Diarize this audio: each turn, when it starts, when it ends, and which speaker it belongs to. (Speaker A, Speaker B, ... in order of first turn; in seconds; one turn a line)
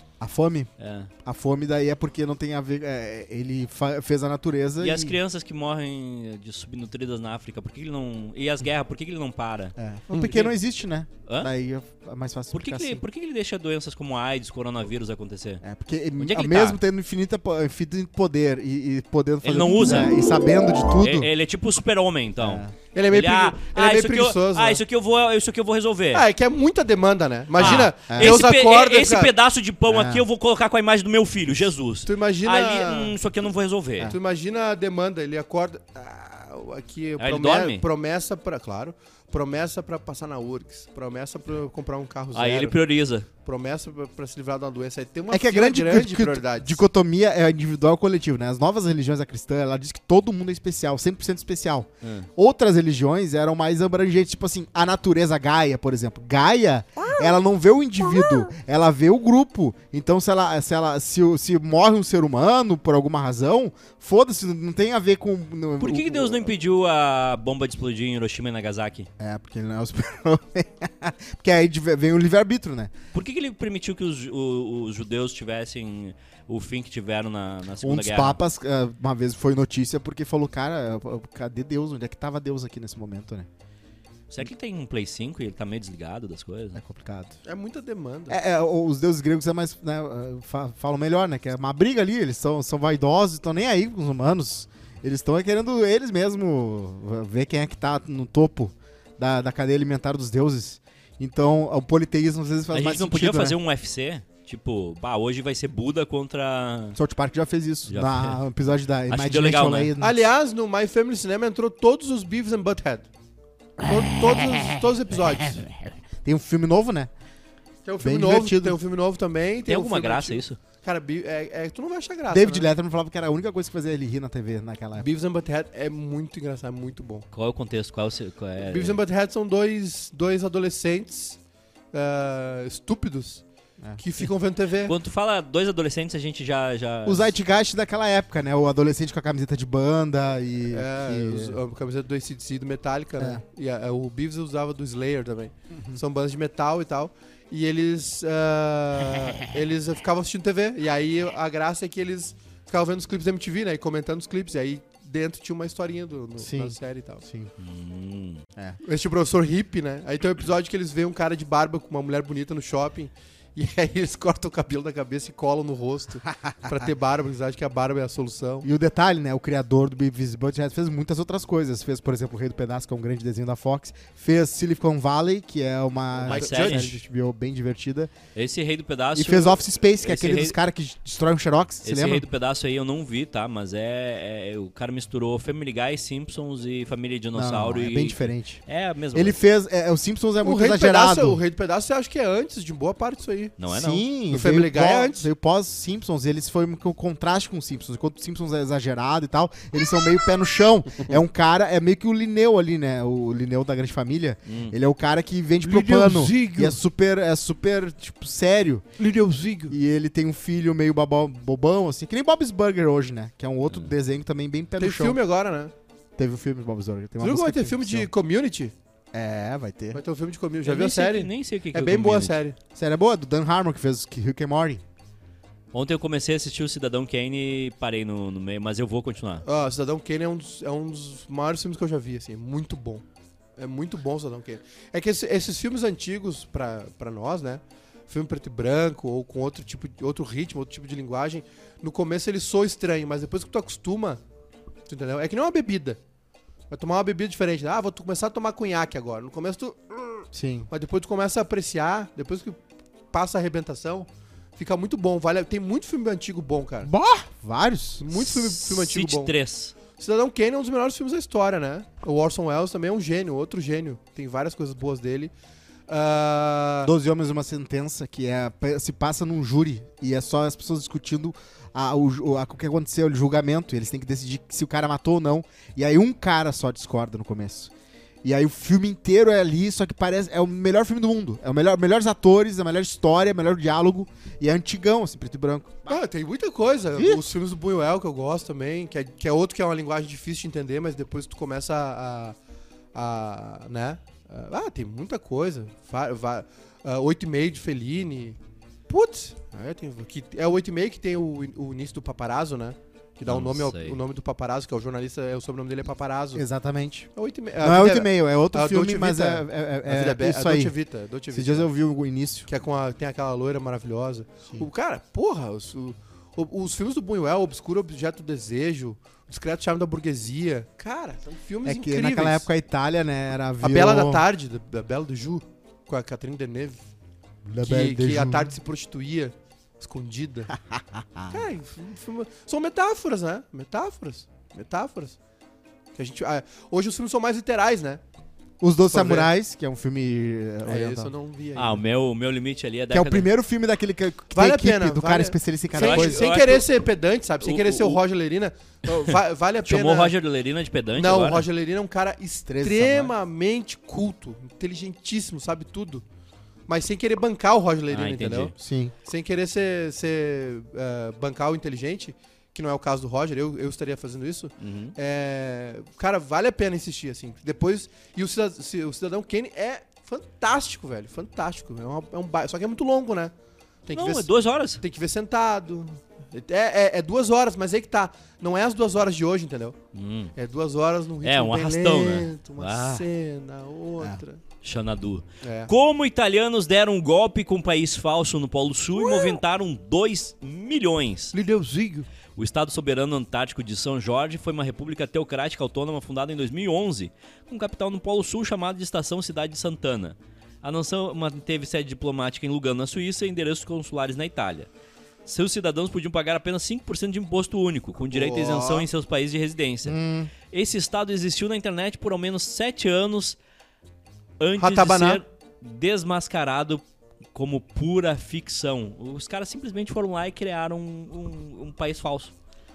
Speaker A: 0.2-0.7
Speaker B: 0.8-1.1
Speaker A: 1.2-5.2
Speaker B: 4.8-10.6
Speaker A: 9.8-13.0
Speaker B: 12.5-15.6
Speaker A: 15.6-21.3
Speaker B: 16.2-16.8
Speaker B: 19.4-20.1
Speaker B: 21.0-26.3
Speaker A: 22.4-22.8
Speaker C: 22.9-24.8
Speaker C: 26.1-29.3
Speaker B: 27.6-34.1
Speaker A: 27.6-28.4
Speaker A: 29.9-30.2
Speaker C: 32.0-33.2
Speaker C: 34.1-42.8
Speaker B: 37.2-37.9
Speaker B: 42.3-43.3
Speaker C: 43.4-46.8
Speaker A: 45.3-66.5
Speaker B: 52.0-52.3
Speaker B: 65.8-69.1
Speaker A: 69.2-72.9
Speaker B: 73.1-78.4
Speaker A: 77.8-83.5
Speaker B: 84.3-86.8
Speaker A: 86.8-87.4
Speaker C: 87.5-88.4
Speaker A: 88.3-103.6
Speaker B: 102.7-107.0
Speaker A: 107.0-110.2
Speaker B: 107.9-108.4
Speaker B: 109.1-109.9
Speaker C: 110.0-113.1
Speaker C: 113.8-115.7
Speaker A: 116.2-117.1
Speaker C: 117.8-122.7
Speaker A: 118.0-118.8
Speaker B: 119.7-120.6
Speaker A: 122.3-125.1
Speaker C: 125.0-127.3
Speaker B: 127.3-129.0
Speaker C: 128.6-131.4
Speaker C: 131.9-133.4
Speaker C: 134.0-134.9
Speaker B: 134.9-137.4
Speaker A: 137.1-141.6
Speaker C: 140.7-157.2
Speaker A: 143.2-143.4
Speaker A: 145.7-146.0
Speaker A: 156.4-157.5
Speaker B: 157.6-158.4
Speaker C: 158.8-168.7
Speaker A: 166.4-166.9
Speaker A: 168.6-178.1
Speaker B: 176.2-176.9
Speaker C: 176.2-177.0
Speaker B: 178.3-180.6
Speaker A: 179.1-182.3
Speaker B: 181.8-189.4
Speaker A: 187.3-188.6
Speaker A: 189.1-191.4
Speaker C: 190.4-193.6
Speaker B: 193.6-194.1
Speaker A: 193.7-208.9
Speaker C: 194.3-195.3
Speaker B: 204.5-204.8
Speaker C: 205.7-206.8
Speaker C: 209.0-209.8
Speaker A: 209.7-215.2
Speaker C: 214.8-215.7
Speaker A: 216.2-218.1
Speaker C: 217.2-218.7
Speaker A: 219.1-220.0
Speaker C: 219.9-222.6
Speaker B: 220.7-222.4
Speaker A: 222.8-224.8
Speaker B: 225.7-229.4
Speaker C: 229.5-233.0
Speaker C: 233.6-244.2
Speaker C: 244.9-246.0
Speaker C: 246.7-252.6
Speaker A: 250.3-250.7
Speaker C: 253.1-256.9
Speaker A: 256.8-258.1
Speaker C: 258.0-259.3
Speaker B: 258.1-259.8
Speaker C: 259.9-265.3
Speaker C: 265.9-266.9
Speaker A: 266.8-277.7
Speaker A: 278.2-286.0
Speaker C: 285.9-292.4
Speaker A: 287.0-287.2
Speaker C: 292.9-298.4
Speaker C: 298.9-306.4
Speaker B: 303.3-304.0
Speaker A: 306.4-310.8
Speaker C: 307.2-311.7
Speaker A: 311.3-312.5
Speaker C: 312.5-322.5
Speaker A: 321.6-324.2
Speaker C: 323.6-326.8
Speaker A: 327.5-328.6
Speaker C: 327.6-330.5
Speaker A: 330.5-331.4
Speaker C: 331.3-335.2
Speaker C: 335.9-338.0
Speaker A: 338.6-341.1
Speaker C: 338.9-339.3
Speaker C: 340.6-341.8
Speaker B: 341.6-343.3
Speaker A: 342.9-346.3
Speaker C: 344.3-350.1
Speaker B: 345.7-346.7
Speaker B: 347.4-348.0
Speaker B: 349.1-351.5
Speaker C: 350.9-356.0
Speaker A: 352.5-353.1
Speaker C: 356.7-358.5
Speaker B: 357.9-358.5
Speaker A: 358.6-358.9
Speaker C: 359.1-373.3
Speaker B: 364.6-364.9
Speaker C: 373.9-379.8
Speaker B: 373.9-374.8
Speaker B: 379.9-380.3
Speaker C: 380.4-384.4
Speaker B: 381.2-383.1
Speaker B: 384.6-391.4
Speaker C: 385.4-385.7
Speaker C: 389.0-389.4
Speaker C: 391.3-392.1
Speaker B: 392.4-404.7
Speaker B: 405.2-410.0
Speaker C: 408.1-408.9
Speaker A: 409.8-410.3
Speaker B: 410.5-413.4
Speaker B: 414.4-416.8
Speaker C: 414.6-415.2
Speaker B: 417.3-422.3